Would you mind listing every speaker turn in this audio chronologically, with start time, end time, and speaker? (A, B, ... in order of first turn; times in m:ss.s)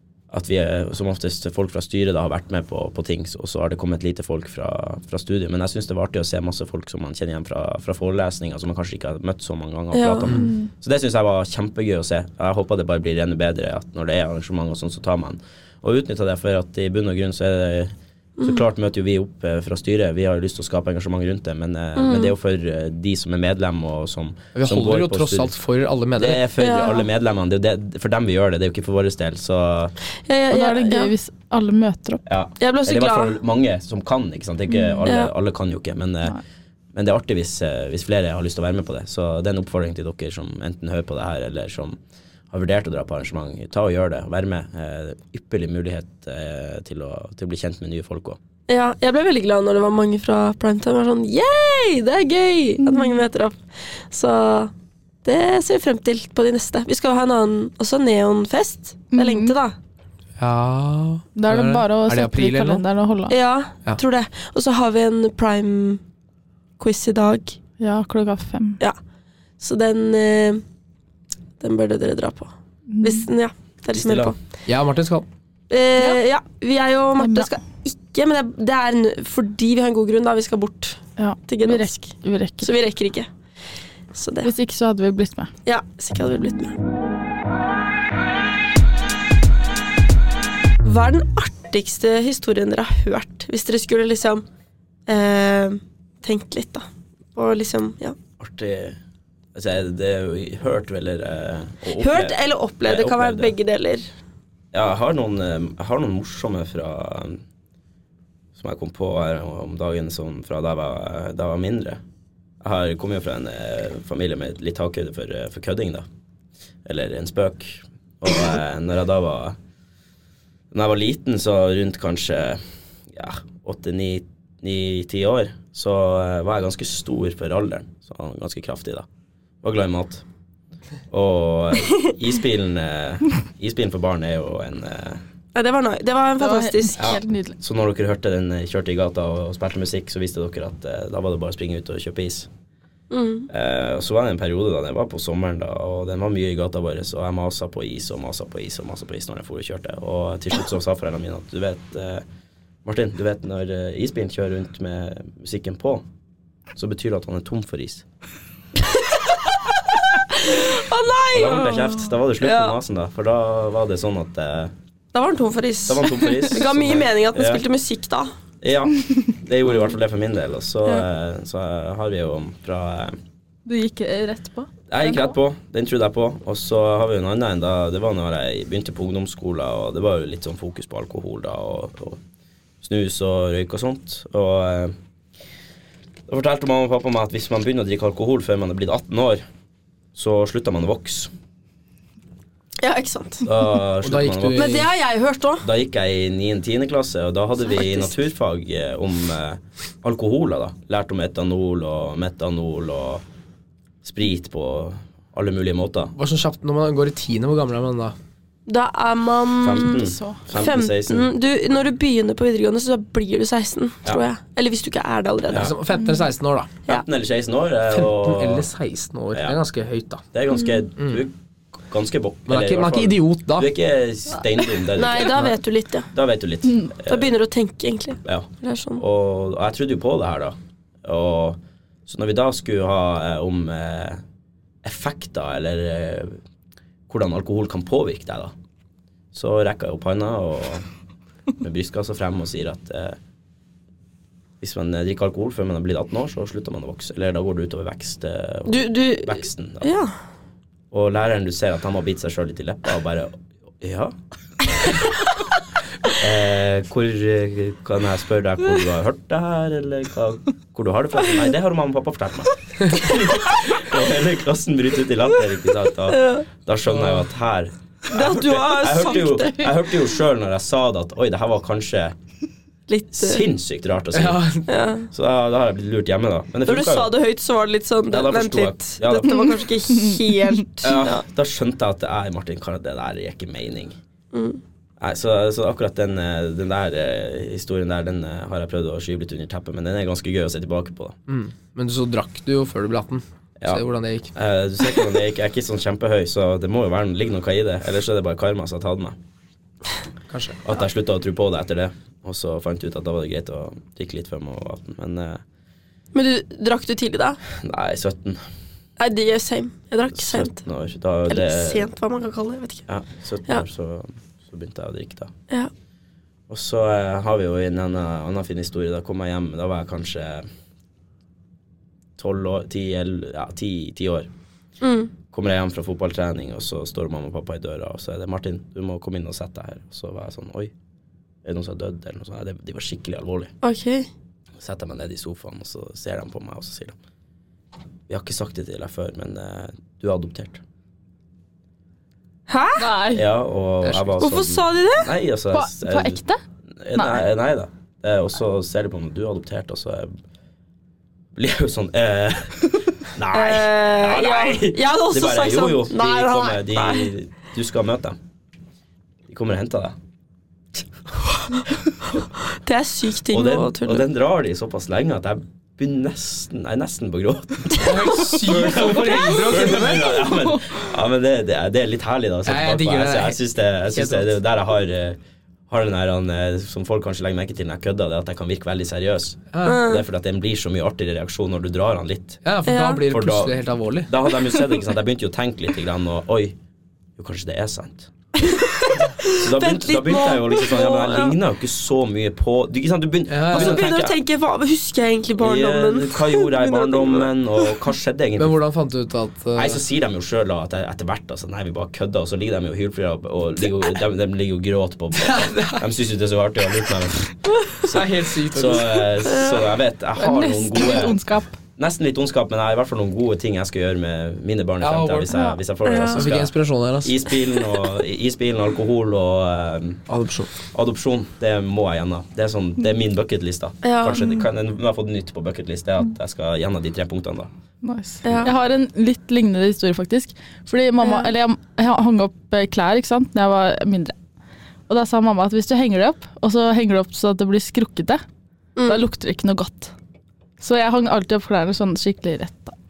0:00.3-0:25.5 A
0:09.9-0:10.4 B
0:10.3-0:10.7 C
0:22.0-0:22.3 B
0:24.6-0:26.4 D
0:26.2-0:29.9 A
0:26.6-0:27.0 B
0:30.3-0:31.1 B
0:30.5-0:32.2 C
0:32.3-0:36.4 A
0:32.6-0:33.3 B
0:35.0-0:35.3 B
0:36.9-0:42.0 A
0:42.5-0:48.4 A
0:48.7-0:53.6 B
0:52.8-0:53.2 C
0:54.1-0:54.7 B
0:55.2-0:59.8 B
0:59.1-0:59.6 C
1:00.4-1:02.8 D
1:01.4-1:03.4 C
1:03.3-1:06.0 B
1:06.8-1:07.6 B
1:07.8-1:08.8 C
1:09.6-1:10.6 B
1:11.6-1:14.4 B
1:12.9-1:13.3 C
1:13.9-1:14.3 A
1:14.7-1:15.3 D
1:15.7-1:22.0 B
1:17.2-1:17.5 C
1:21.2-1:22.7 C
1:22.6-1:23.3 B
1:24.1-1:24.5 B
1:24.4-1:25.5 C
1:25.7-1:26.8 B
1:30.8-1:34.5 B
1:35.1-1:38.2 B
1:38.4-1:39.0 A
1:39.6-1:43.5 A
1:42.0-1:44.0 B
1:44.7-1:47.4 A
1:48.6-1:52.0 A
1:52.6-1:56.1 A
1:56.8-1:59.6 A
2:00.7-2:09.1 A
2:09.6-2:10.2 A
2:11.1-2:15.2 A
2:15.6-2:17.2 B
2:16.4-2:17.6 C
2:17.0-2:22.5 A
2:23.1-2:23.5 B
2:23.5-2:32.2 A
2:32.8-2:36.0 A
2:36.8-2:38.0 A
2:38.9-2:42.8 B
2:41.3-2:44.7 A
2:45.1-2:48.3 B
2:45.9-2:47.6 A
2:48.6-2:53.2 A
2:53.7-2:55.3 C
2:54.9-3:02.2 A
3:02.8-3:05.0 A
3:06.3-3:09.4 A
3:10.2-3:11.3 A
3:12.8-3:13.5 B
3:13.4-3:14.8 A
3:14.0-3:14.9 D
3:14.6-3:15.7 B
3:15.6-3:23.2 A
3:24.0-3:26.1 A
3:26.2-3:28.2 D
3:28.7-3:35.7 B
3:29.6-3:31.3 A
3:29.8-3:30.4 C
3:35.5-3:35.8 A
3:35.6-3:36.8 D
3:36.0-3:36.2 C
3:36.9-3:38.7 A
3:37.9-3:40.2 D
3:39.3-3:39.6 A
3:40.3-3:41.3 A
3:41.0-3:41.2 D
3:41.9-3:45.5 A
3:42.5-3:43.7 D
3:44.9-3:46.1 B
3:46.1-3:47.3 A
3:47.1-3:49.0 B
3:48.2-3:54.2 A
3:54.8-3:56.4 A
3:57.1-3:58.5 A
3:59.3-4:00.9 A
4:01.6-4:03.2 A
4:04.6-4:09.9 A
4:08.7-4:10.1 B
4:10.9-4:14.2 A
4:16.2-4:32.2 A
4:26.1-4:26.5 B
4:26.9-4:27.2 D
4:28.1-4:29.8 B
4:32.9-4:33.5 B
4:33.1-4:34.4 A
4:34.1-4:34.7 D
4:34.7-4:35.1 B
4:35.1-4:37.2 A
4:36.7-4:41.2 B
4:38.1-4:39.4 A
4:39.4-4:40.2 C
4:40.8-4:44.0 A
4:44.3-4:44.6 B
4:45.0-4:51.2 A
4:51.3-4:54.3 D
4:53.6-4:59.2 A
5:00.3-5:00.6 D
5:00.6-5:05.4 A
5:06.1-5:07.4 B
5:07.6-5:08.4 A
5:09.0-5:10.6 B
5:10.1-5:11.9 A
5:11.3-5:12.9 B
5:12.9-5:15.3 A
5:16.5-5:20.5 A
5:22.2-5:24.3 A
5:24.8-5:25.1 B
5:25.3-5:30.7 A
5:31.4-5:33.5 A
5:33.6-5:34.1 B
5:34.6-5:37.0 A
5:38.1-5:40.6 A
5:42.5-5:42.9 B
5:42.8-5:43.3 C
5:43.1-5:46.2 A
5:43.8-5:44.2 D
5:44.2-5:45.1 B
5:45.5-5:46.4 C
5:46.8-5:50.1 A
5:47.0-5:47.2 C
5:51.4-5:58.2 A
5:53.3-5:57.1 B
5:59.3-6:00.0 A
6:02.2-6:04.0 B
6:03.3-6:22.4 A
6:07.8-6:10.2 D
6:09.4-6:10.8 C
6:12.5-6:13.4 D
6:13.9-6:14.3 D
6:19.5-6:19.8 D
6:19.6-6:20.0 B
6:22.4-6:24.1 D
6:22.7-6:23.0 B
6:23.1-6:26.6 A
6:27.2-6:28.1 A
6:28.4-6:31.4 B
6:29.3-6:34.2 A
6:33.3-6:33.8 D
6:33.5-6:37.3 B
6:35.4-6:38.6 A
6:38.4-6:39.8 D
6:39.6-6:51.2 A
6:45.2-6:45.8 D
6:47.8-6:49.2 D
6:49.3-6:49.7 B
6:50.2-6:51.6 C
6:51.8-7:00.0 A
6:54.8-6:55.4 D
6:55.3-6:55.6 C
6:55.8-6:56.3 B
6:56.1-6:57.2 D
7:00.1-7:00.5 D
7:00.7-7:07.5 A
7:03.8-7:04.4 B
7:07.8-7:14.2 C
7:08.2-7:08.5 B
7:08.2-7:08.5 A
7:11.0-7:11.3 B
7:14.9-7:18.2 C
7:18.8-7:19.0 B
7:18.9-7:19.9 C
7:20.6-7:22.8 C